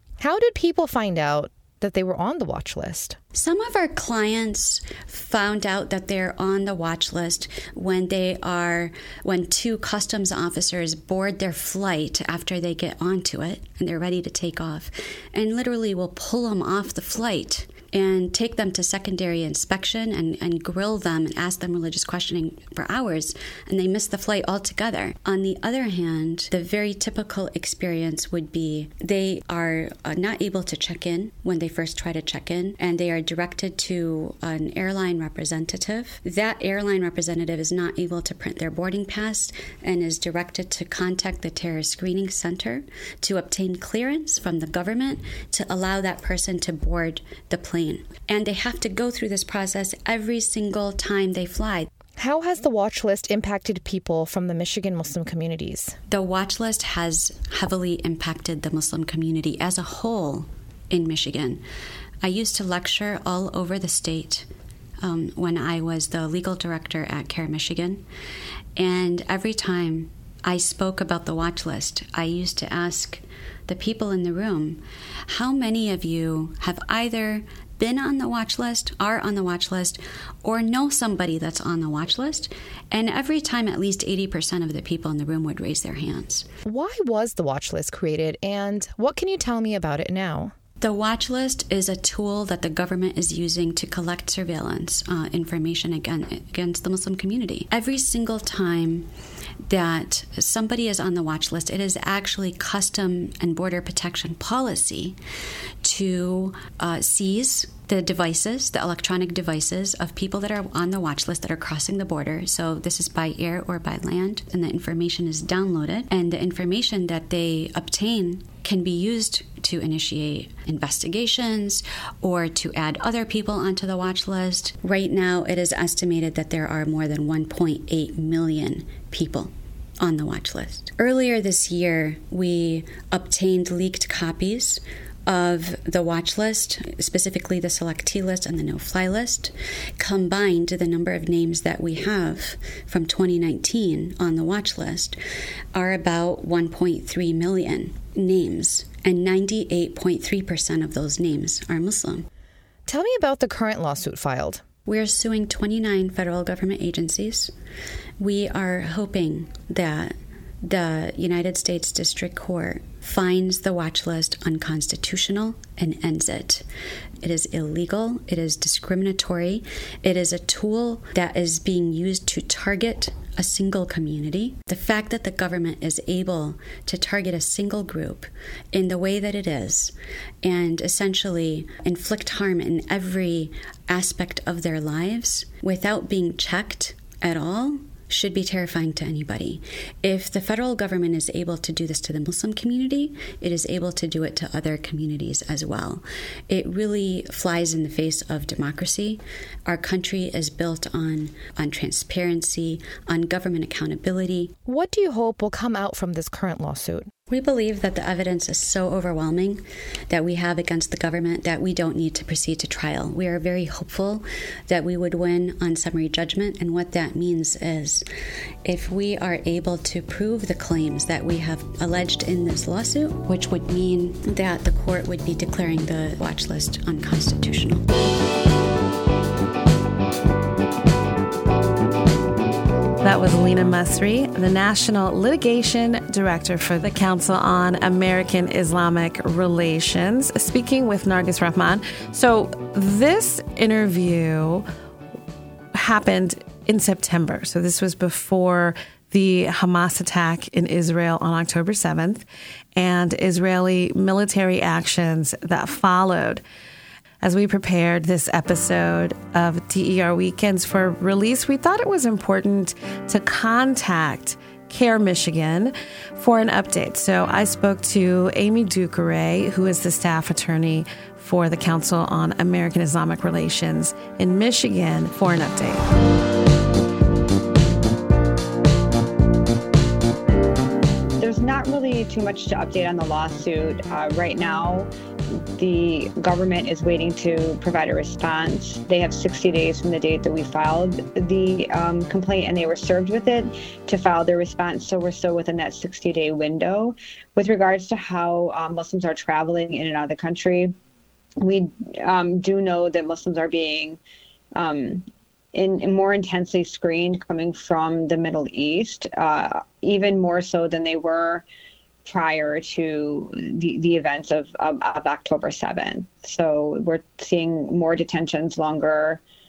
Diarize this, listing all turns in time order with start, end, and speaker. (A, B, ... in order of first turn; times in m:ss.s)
0:00.2-0:03.2 A
0:03.3-0:51.9 B
0:52.2-0:56.0 A
0:56.1-1:01.6 B
1:02.2-1:04.4 B
1:05.0-1:08.0 B
1:08.8-1:26.5 B
1:26.6-1:30.5 A
1:30.8-1:39.1 B
1:39.7-1:45.2 B
1:45.8-2:25.2 B
2:25.7-2:32.3 B
2:32.9-2:34.6 A
2:34.8-2:37.5 B
2:38.2-2:46.6 B
2:47.2-3:24.5 B
3:24.6-3:27.1 A
3:27.3-3:38.0 B
3:38.6-3:47.8 B
3:53.0-4:04.6 C
4:05.7-4:12.2 C
4:12.8-4:16.4 C
4:17.2-4:35.8 C
4:41.2-5:00.7 D
5:01.4-5:04.0 D
5:04.5-5:11.4 D
5:12.0-5:19.2 D